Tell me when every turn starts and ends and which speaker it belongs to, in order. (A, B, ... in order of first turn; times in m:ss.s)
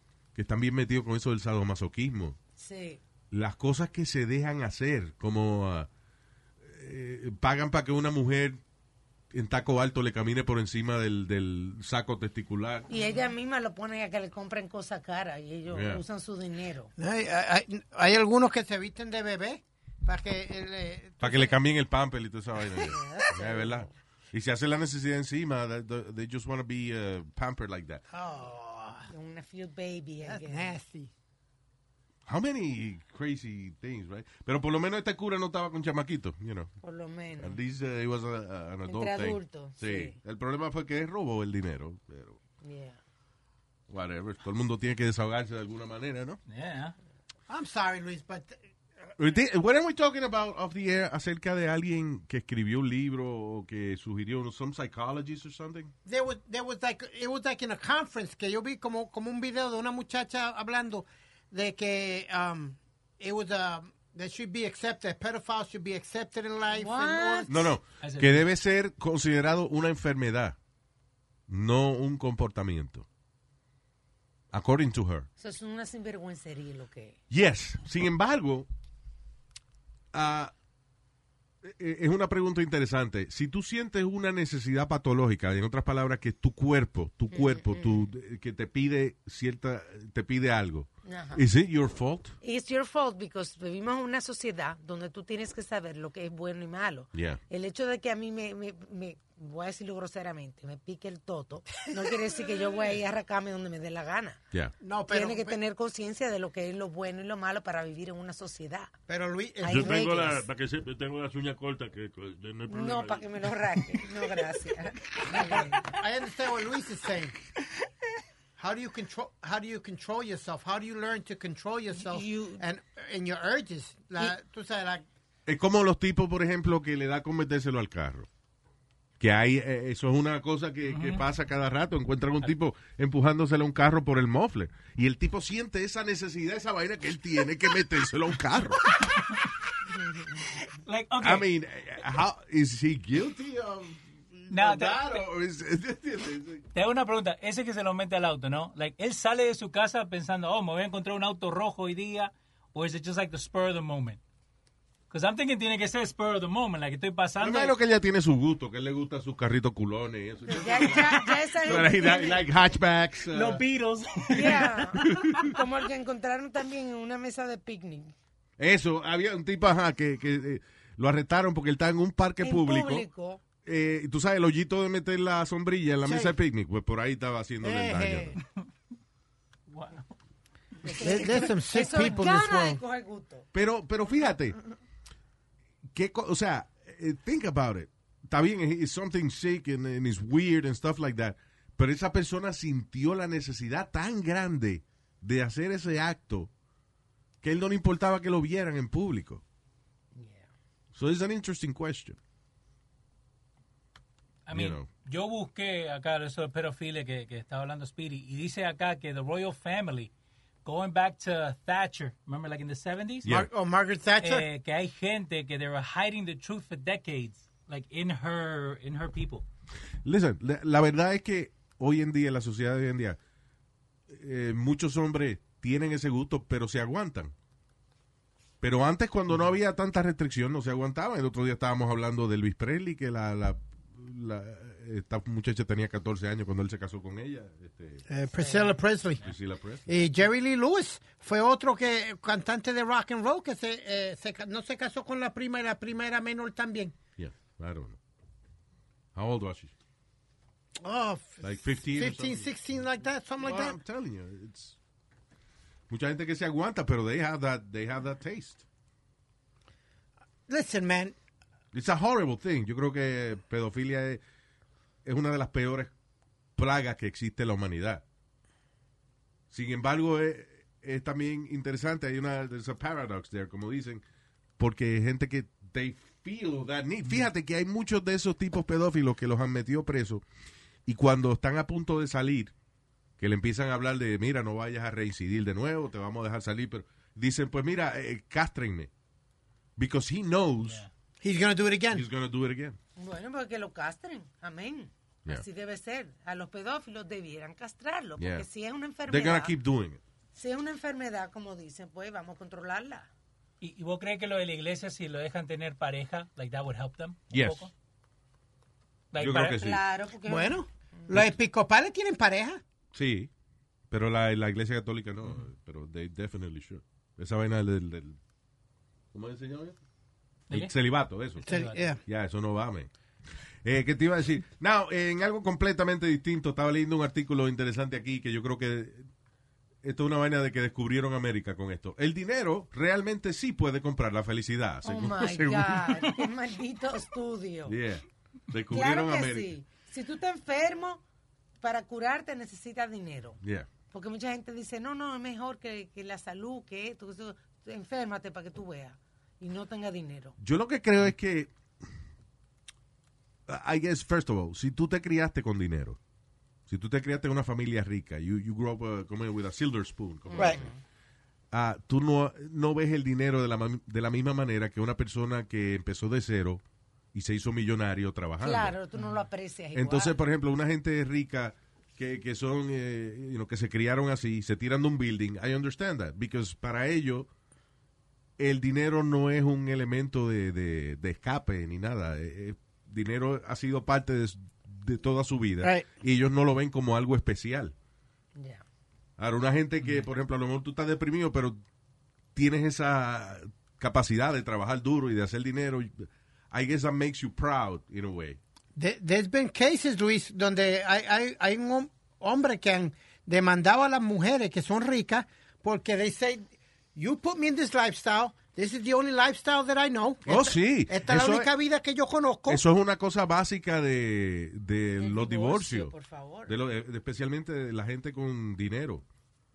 0:00.4-0:02.4 A
0:02.6-0:03.0 B
0:03.3-0:05.9 A
0:06.6-0:08.6 A
0:09.3-0:12.9 A
0:12.9-0:16.9 B
0:15.7-0:16.0 A
0:17.0-0:21.6 C
0:21.2-0:28.0 A
0:22.7-0:23.6 C
0:22.9-0:23.9 B
0:28.1-0:29.1 C
0:29.1-0:30.8 B
0:30.2-0:31.1 C
0:32.3-0:36.7 A
0:36.8-0:37.6 B
0:37.4-0:42.4 A
0:38.8-0:40.2 B
0:42.6-0:43.0 B
0:43.9-0:46.4 A
0:46.5-0:47.0 D
0:47.5-0:48.6 C
0:49.2-0:55.9 A
0:56.0-1:07.7 C
1:06.7-1:07.7 B
1:07.5-1:10.6 A
1:08.0-1:08.4 D
1:11.5-1:13.1 A
1:14.5-1:15.3 A
1:15.4-1:17.2 B
1:17.3-1:18.7 A
1:20.1-1:20.5 A
1:21.6-1:32.4 A
1:27.3-1:28.1 B
1:31.0-1:31.4 B
1:32.4-1:44.4 B
1:37.1-1:37.4 A
1:44.8-1:45.6 C
1:45.1-1:48.9 B
1:49.1-1:50.4 C
1:49.6-1:50.4 B
1:49.7-1:53.5 E
1:52.7-1:55.9 B
1:55.3-1:57.4 C
1:58.6-2:05.0 C
2:01.9-2:02.6 B
2:05.5-2:08.3 A
2:09.2-2:18.8 A
2:10.9-2:11.2 D
2:20.5-2:21.5 D
2:21.2-2:26.7 A
2:24.5-2:25.2 D
2:26.7-2:34.2 D
2:35.1-2:37.8 D
2:37.4-2:43.6 A
2:40.5-2:42.4 B
2:43.3-2:45.3 D
2:44.3-2:48.1 B
2:45.0-2:45.5 A
2:48.6-2:53.1 A
2:52.4-2:53.4 B
2:53.6-2:58.4 A
2:56.0-2:56.3 C
2:57.6-2:58.4 C
2:59.7-3:00.1 D
3:00.8-3:03.5 B
3:00.9-3:02.8 C
3:03.5-3:04.6 A
3:05.9-3:16.5 A
3:17.4-3:19.4 A
3:20.2-3:20.5 B
3:20.9-3:22.2 A
3:24.5-3:30.1 D
3:24.5-3:24.9 A
3:30.6-3:33.3 D
3:33.2-3:33.5 A
3:33.3-3:34.5 C
3:34.2-3:39.4 D
3:40.0-3:43.2 A
3:44.1-3:47.3 A
3:48.6-3:58.1 A
3:58.1-3:59.3 C
3:58.3-3:58.7 B
3:59.2-3:59.9 A
3:59.9-4:07.0 C
4:07.2-4:08.0 A
4:09.2-4:09.7 A
4:10.8-4:13.8 C
4:11.4-4:12.5 A
4:13.4-4:14.8 A
4:15.9-4:18.6 A
4:20.5-4:21.2 C
4:21.7-4:24.2 A
4:25.0-4:25.9 A
4:26.6-4:28.0 A
4:29.5-4:34.0 A
4:34.6-4:40.2 A
4:40.9-4:42.5 A
4:43.2-4:48.9 A
4:49.8-4:50.8 A
4:50.6-4:50.9 D
4:51.2-4:52.0 C
4:51.9-4:52.8 A
4:53.0-4:59.6 B
4:58.2-4:58.5 A
4:59.1-5:00.0 A
5:00.3-5:03.1 B
5:03.6-5:07.7 D
5:07.3-5:07.7 A
5:09.1-5:09.8 D
5:09.2-5:09.8 A
5:09.5-5:11.1 B
5:10.3-5:12.6 C
5:12.9-5:13.3 A
5:13.9-5:18.2 A
5:19.1-5:19.8 A
5:20.5-5:21.5 A
5:21.4-5:21.9 D
5:21.5-5:22.0 C
5:22.0-5:22.9 A
5:23.6-5:29.1 A
5:29.8-5:36.1 A
5:34.8-5:37.8 B
5:37.7-5:39.5 A
5:38.7-5:41.0 B
5:41.6-5:43.4 B
5:43.4-5:43.7 A
5:43.9-5:50.4 B
5:50.4-5:51.5 A
5:53.5-5:56.0 A
5:56.7-6:00.7 A
6:00.3-6:00.8 B
6:01.5-6:06.6 A
6:07.1-6:08.8 A
6:08.4-6:10.2 B
6:09.0-6:09.2 D
6:09.7-6:17.3 A
6:18.4-6:27.7 A
6:25.6-6:25.9 C
6:28.4-6:28.6 B
6:29.2-6:31.6 A
6:32.4-6:38.4 A
6:38.8-6:52.6 C
6:50.3-6:51.5 A
6:52.5-6:55.9 A
6:55.0-6:56.6 B
6:56.5-6:59.0 A